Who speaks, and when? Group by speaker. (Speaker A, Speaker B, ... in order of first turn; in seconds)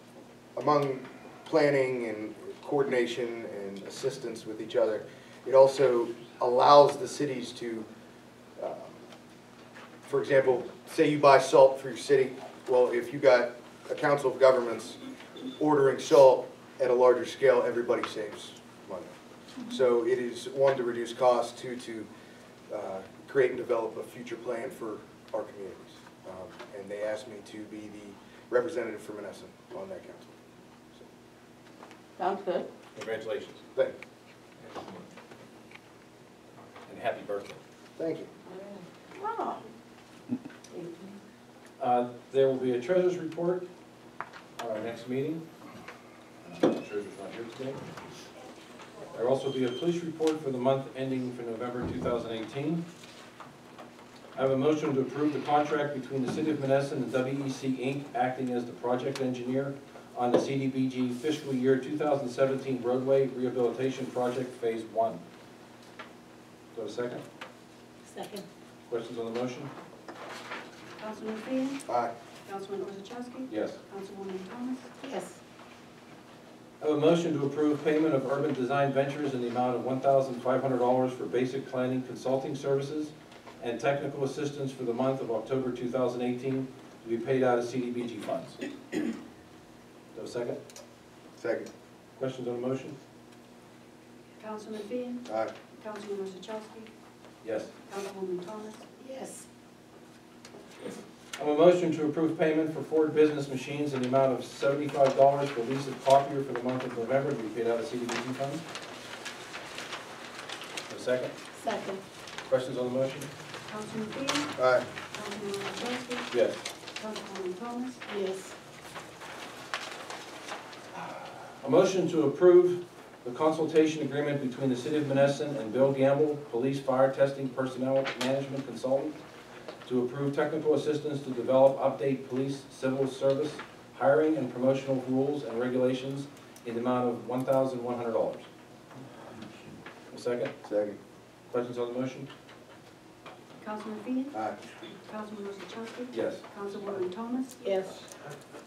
Speaker A: 0.6-7.9, 8.6-9.0, 10.1-15.0, 15.6-19.1, 19.7-22.1, 22.7-30.4, 38.0-38.3, 71.9-72.1, 91.4-91.7, 95.3-95.5, 114.6-114.8, 140.6-141.0, 144.3-144.6
Speaker B: 32.2-32.7, 39.2-39.6, 68.1-68.5, 75.0-75.4, 99.0-99.5, 111.6-112.0, 118.1-118.5, 147.6-147.9
Speaker C: 33.0-33.6, 34.6-35.0, 36.9-37.6, 41.8-43.7, 44.6-45.4, 46.5-47.8, 49.1-52.8, 54.4-65.2, 66.7-67.2, 68.9-69.7, 73.5-73.8, 76.8-88.6, 90.1-90.6, 92.2-93.0, 97.4-97.7, 101.4-108.6, 110.9-111.3, 112.5-113.3, 116.3-116.6, 121.6-129.2, 129.8-138.5, 140.1-140.5, 141.5-142.3, 146.1-146.4
Speaker D: 71.0-71.8, 72.5-74.9, 94.4-96.9, 97.9-98.9, 113.7-114.5, 115.1-116.3, 117.0-118.0, 143.6-147.7